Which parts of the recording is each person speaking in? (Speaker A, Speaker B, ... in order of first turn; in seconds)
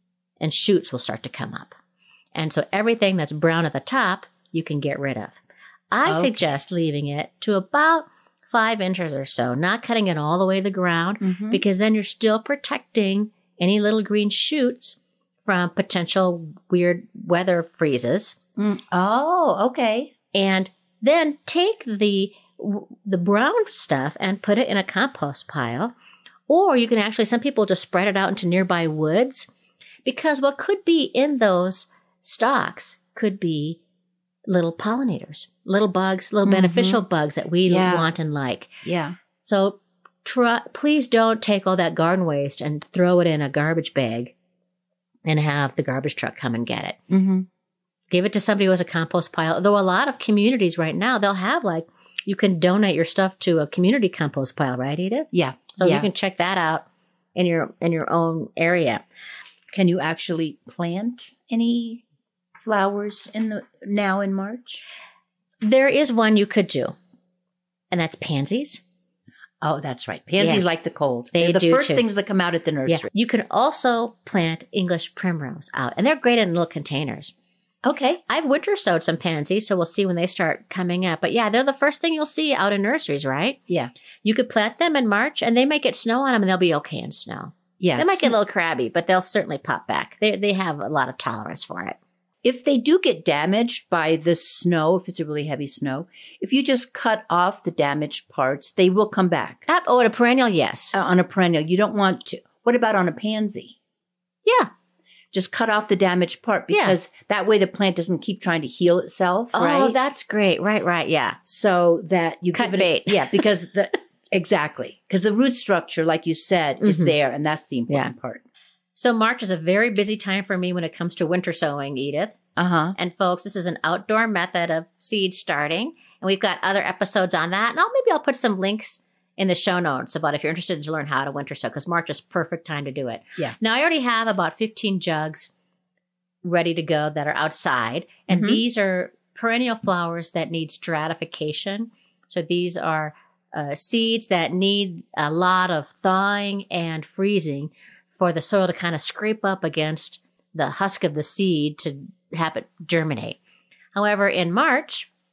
Speaker A: 0.4-1.8, 2.3-5.3, 5.9-18.4, 20.3-25.9, 26.5-29.5, 30.0-33.8, 34.5-38.8, 39.4-44.3, 45.2-47.0, 48.1-59.0, 65.6-67.0, 67.9-68.8, 70.4-70.7, 71.3-72.0, 72.9-77.3, 78.3-83.6, 84.2-92.0, 99.7-101.0, 106.7-107.0, 109.5-111.4, 112.5-113.4, 116.8-117.1, 118.9-122.4, 123.0-135.5, 136.4-153.4, 153.9-155.1
Speaker B: 6.0-6.3, 11.2-11.6, 18.6-20.1, 36.4-37.0, 37.7-38.1, 38.8-39.1, 47.1-47.5, 55.3-56.1, 59.7-62.0, 62.6-64.8, 69.6-73.1, 77.8-78.2, 87.8-88.3, 92.4-99.6, 100.9-103.8, 105.3-110.0, 111.5-118.4, 122.5-123.0, 138.3-138.6